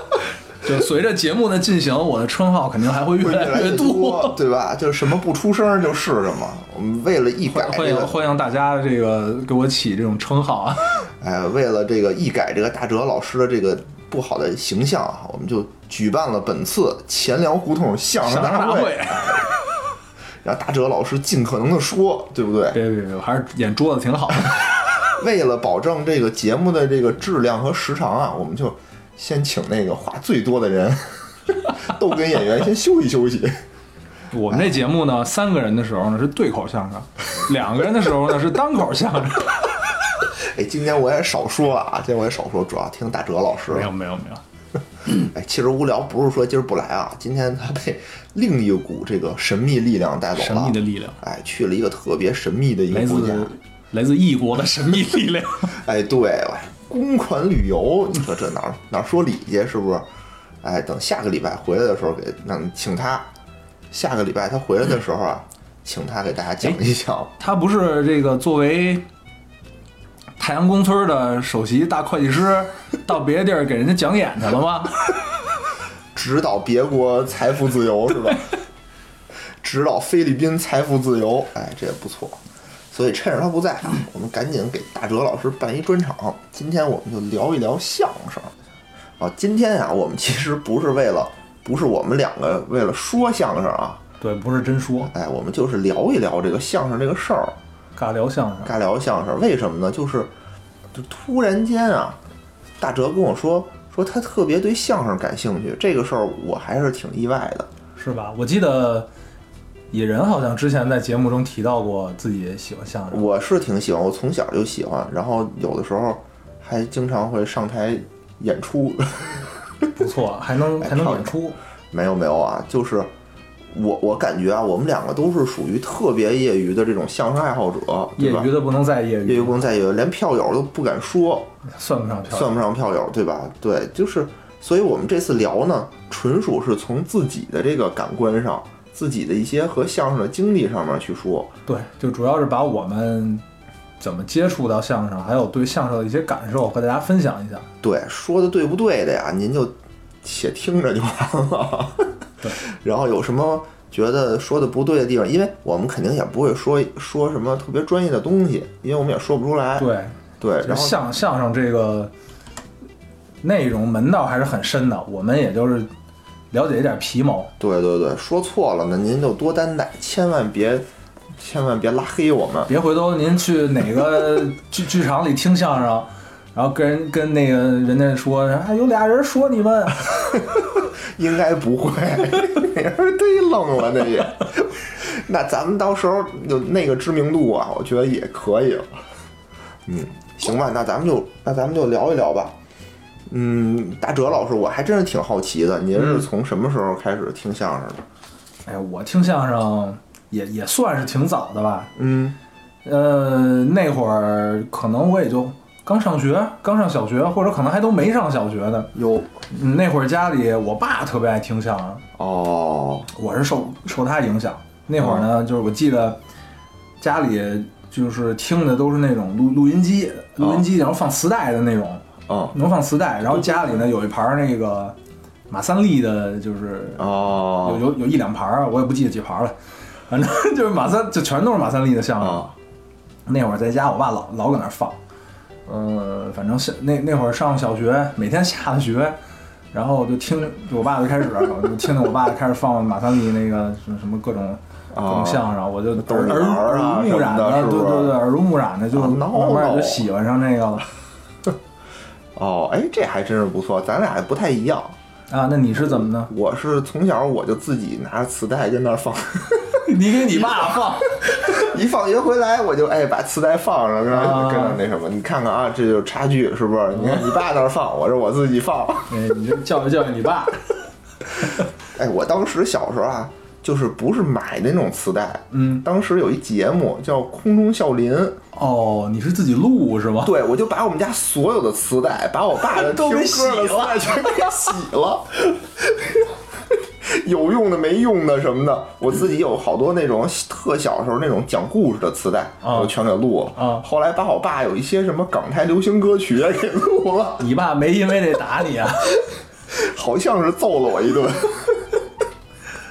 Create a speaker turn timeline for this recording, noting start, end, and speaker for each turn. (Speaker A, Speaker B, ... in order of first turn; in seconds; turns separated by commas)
Speaker A: 0.6-4.4, Speaker B: 3.2-8.2, Speaker A: 7.5-11.0, Speaker B: 11.2-19.5, Speaker A: 18.2-19.4, Speaker B: 20.4-22.8, Speaker A: 22.7-24.6, Speaker B: 25.2-33.6, Speaker A: 34.3-39.5, Speaker B: 34.5-34.8, Speaker B: 40.4-43.9, Speaker A: 43.7-44.4, Speaker B: 45.1-53.5, Speaker A: 50.4-51.2, Speaker A: 52.9-55.7, Speaker B: 55.8-60.1, Speaker B: 60.6-63.3, Speaker B: 63.9-67.3, Speaker A: 67.4-69.0, Speaker A: 70.4-75.0, Speaker B: 76.1-78.5, Speaker B: 79.6-82.4, Speaker B: 82.9-88.5, Speaker B: 89.2-94.0, Speaker A: 94.2-95.1, Speaker B: 95.0-97.6, Speaker A: 98.0-98.7, Speaker B: 98.6-100.3, Speaker B: 100.9-102.2, Speaker B: 102.8-107.7, Speaker A: 108.0-109.1, Speaker A: 109.9-113.2, Speaker B: 113.1-119.8, Speaker A: 120.0-121.6, Speaker B: 120.8-121.4, Speaker B: 121.9-123.1, Speaker B: 123.7-128.5, Speaker A: 128.2-129.6, Speaker B: 129.2-131.6, Speaker A: 131.6-132.5, Speaker B: 132.3-141.5, Speaker A: 141.7-143.4, Speaker A: 144.0-147.7, Speaker B: 147.8-152.1, Speaker B: 152.7-161.0, Speaker A: 159.8-162.1, Speaker A: 163.4-165.9, Speaker A: 166.5-167.5, Speaker B: 167.6-172.7, Speaker A: 172.7-180.1, Speaker B: 180.4-188.9, Speaker B: 189.8-192.6, Speaker B: 193.3-198.0, Speaker A: 195.9-196.2, Speaker A: 198.7-201.9, Speaker B: 201.9-202.4, Speaker A: 202.8-208.9, Speaker B: 208.9-209.4, Speaker A: 209.5-212.0, Speaker B: 212.2-213.1, Speaker A: 213.1-216.2, Speaker B: 215.0-215.3, Speaker A: 217.0-224.9, Speaker B: 220.4-220.7, Speaker B: 222.3-222.6, Speaker B: 223.2-223.8, Speaker A: 225.5-229.5, Speaker B: 227.0-227.8, Speaker A: 230.1-232.4, Speaker B: 232.2-232.5, Speaker A: 233.3-235.0, Speaker A: 235.7-239.2, Speaker A: 239.7-250.8, Speaker B: 244.9-248.2, Speaker B: 248.9-250.1, Speaker B: 252.3-255.0, Speaker A: 255.3-256.3, Speaker B: 256.3-269.2, Speaker A: 259.8-261.1, Speaker A: 264.1-264.8, Speaker A: 266.9-267.3, Speaker A: 269.1-270.6, Speaker B: 271.9-278.4, Speaker A: 275.5-275.8, Speaker A: 278.5-280.3, Speaker B: 280.2-286.3, Speaker A: 282.6-284.7, Speaker B: 287.0-297.4, Speaker A: 292.6-292.9, Speaker A: 293.6-293.8, Speaker A: 297.4-299.2, Speaker B: 299.7-301.9